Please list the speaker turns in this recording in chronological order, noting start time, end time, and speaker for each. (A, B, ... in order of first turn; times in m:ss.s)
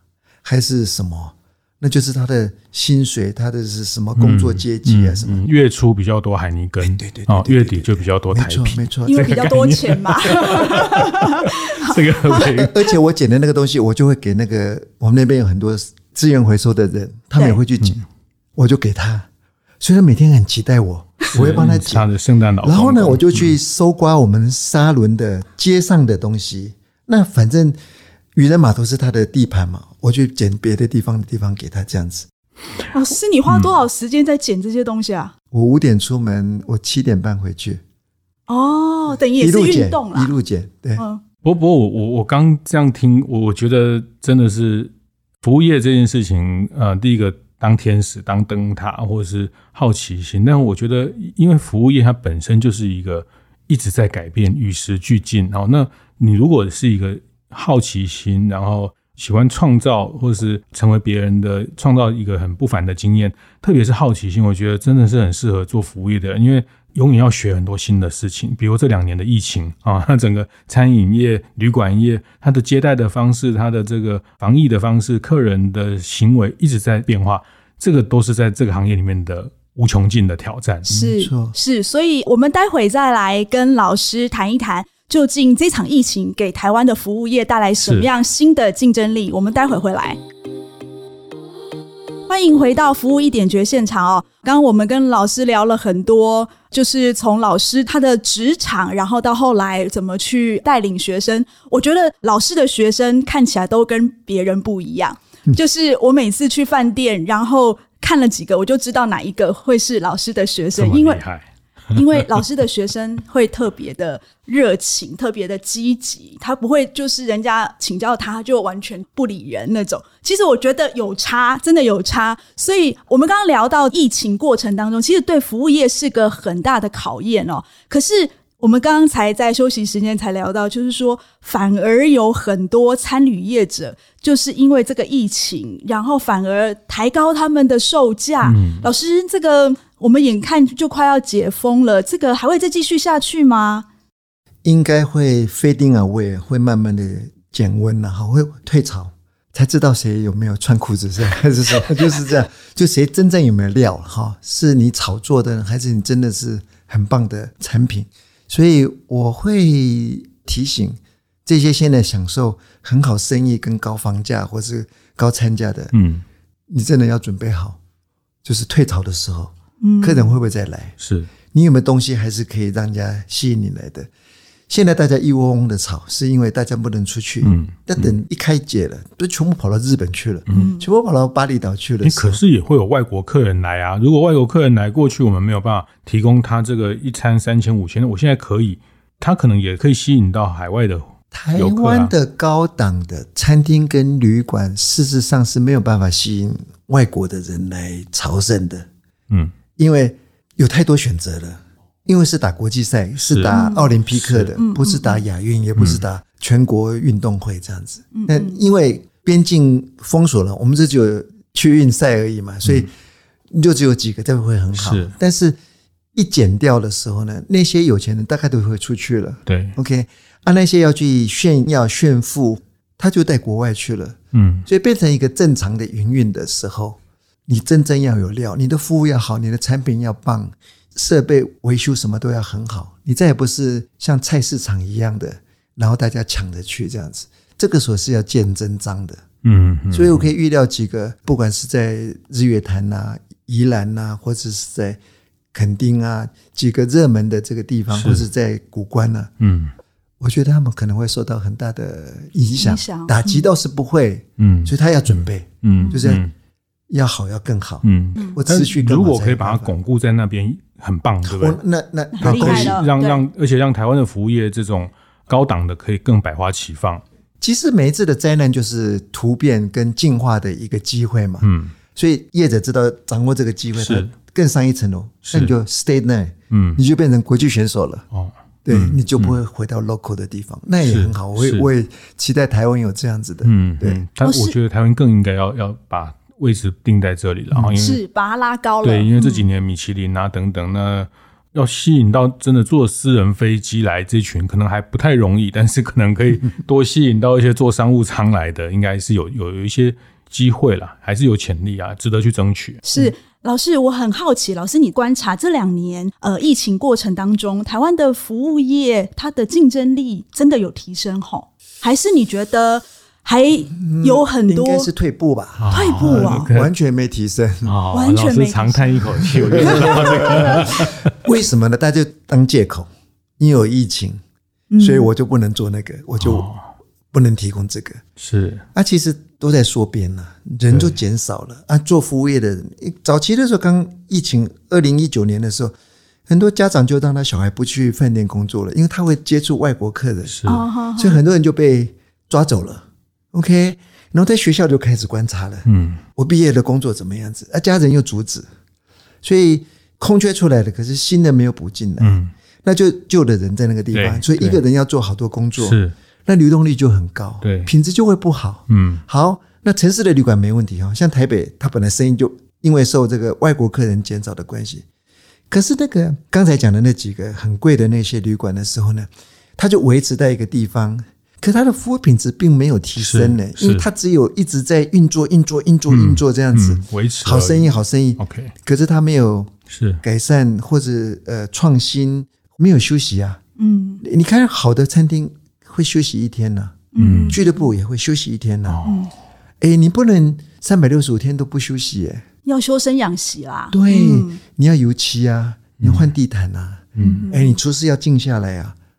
0:00.4-0:05.4 A
0:04.2-0:12.9 B
0:06.8-0:09.3 A
0:09.0-0:12.5 C
0:12.3-0:18.0 A
0:17.4-0:17.6 C
0:18.6-0:19.3 A
0:19.8-0:22.1 A
0:21.3-0:23.6 B
0:22.6-0:27.8 A
0:28.4-0:32.3 A
0:32.9-0:35.3 C
0:35.5-0:37.8 A
0:38.5-0:40.3 C
0:39.4-0:41.0 A
0:41.4-1:20.9 B
1:20.9-1:30.2 C
1:21.0-1:21.6 A
1:27.8-1:28.1 B
1:32.3-1:51.2 C
1:50.8-1:51.5 B
1:51.9-2:23.9 C
2:18.4-2:18.9 B
2:24.6-2:45.9 A
2:45.9-2:46.2 B
2:46.7-2:47.8 A
2:48.4-2:51.0 A
2:49.8-2:50.4 C
2:51.0-2:51.3 B
2:51.5-2:54.1 A
2:54.7-3:02.4 A
2:57.4-2:58.2 B
3:00.5-3:00.9 C
3:02.0-3:12.1 B
3:11.3-3:18.9 A
3:19.8-3:32.9 A
3:23.2-3:24.5 B
3:23.5-3:23.9 C
3:24.6-3:25.2 C
3:25.8-3:26.0 B
3:28.1-3:28.6 C
3:32.6-3:32.9 B
3:33.5-3:35.6 A
3:34.7-3:35.1 B
3:36.2-3:59.2 A
3:39.5-3:39.8 B
3:44.3-3:44.7 B
3:59.4-4:00.3 B
3:59.9-4:05.0 A
4:05.5-4:09.3 A
4:07.9-4:08.2 B
4:09.4-4:09.7 B
4:10.2-4:16.2 A
4:12.6-4:13.4 C
4:14.4-4:16.3 B
4:16.9-4:19.8 A
4:17.8-4:21.6 B
4:21.2-4:22.8 A
4:22.1-4:23.2 C
4:22.2-4:27.0 B
4:27.4-4:38.0 A
4:31.4-4:31.8 B
4:33.8-4:34.1 B
4:35.2-4:35.5 B
4:36.5-4:36.8 B
4:38.1-4:39.4 B
4:38.6-4:44.0 A
4:40.8-4:41.7 B
4:43.4-4:48.0 B
4:44.2-4:44.6 C
4:47.8-4:49.5 C
4:48.8-5:02.8 B
5:02.8-5:14.9 C
5:13.8-5:17.8 A
5:15.6-5:16.7 B
5:15.7-5:16.5 C
5:17.6-5:21.1 B
5:17.9-5:20.1 C
5:19.5-5:22.9 A
5:23.4-5:24.2 A
5:24.7-5:25.1 C
5:24.8-5:26.5 A
5:26.2-5:26.6 B
5:27.1-5:28.0 A
5:28.2-5:28.6 B
5:28.8-5:35.8 A
5:30.7-5:31.0 B
5:36.3-5:40.4 A
5:40.3-5:40.6 B
5:40.5-5:41.2 C
5:41.0-5:48.5 A
5:45.7-5:46.0 B
5:49.2-6:04.8 A
5:52.0-5:52.3 B
5:53.9-5:54.6 B
5:55.6-5:55.9 B
5:57.4-5:57.7 B
5:58.7-5:59.0 B
6:05.5-6:23.4 A
6:13.0-6:13.9 B
6:15.9-6:18.5 B
6:19.7-6:20.0 B
6:23.6-6:24.0 C
6:24.0-6:28.8 A
6:26.9-6:27.7 C
6:27.0-6:27.4 B
6:28.7-6:29.0 B
6:28.8-6:29.1 C
6:29.6-6:32.2 A
6:32.5-6:34.4 C
6:33.7-6:38.8 A
6:35.8-6:36.1 B
6:37.0-6:37.3 B
6:37.0-6:37.6 C